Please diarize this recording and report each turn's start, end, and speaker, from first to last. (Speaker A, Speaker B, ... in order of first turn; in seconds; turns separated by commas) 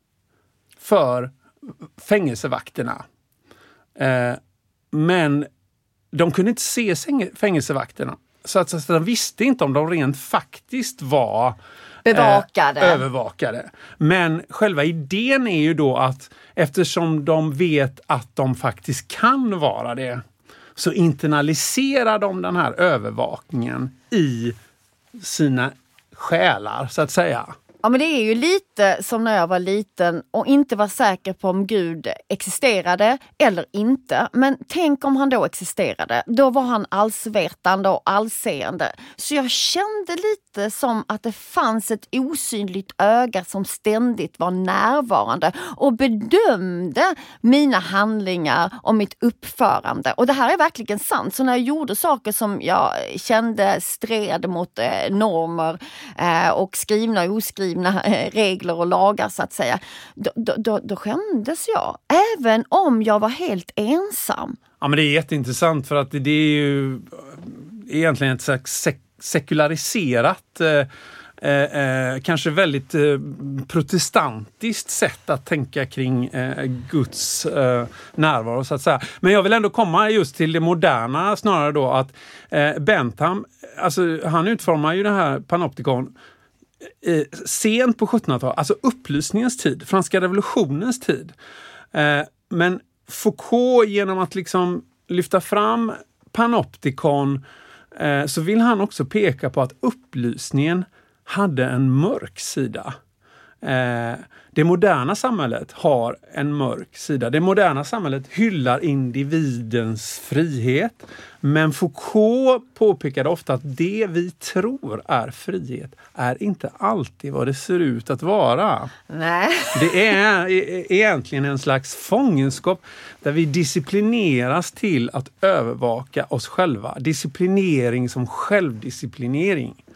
Speaker A: 0.8-1.3, Speaker A: 2.0-3.0, Speaker A: 4.0-4.4, Speaker A: 4.9-5.5, Speaker A: 6.1-11.6, Speaker B: 12.0-13.0, Speaker A: 12.1-20.2, Speaker A: 20.8-24.6, Speaker A: 25.1-27.5, Speaker B: 27.8-64.6, Speaker A: 64.8-70.9, Speaker A: 71.4-86.1, Speaker A: 87.0-91.3, Speaker A: 91.9-97.4, Speaker A: 97.9-103.0, Speaker A: 103.6-118.9, Speaker B: 119.1-120.1, Speaker A: 119.7-129.8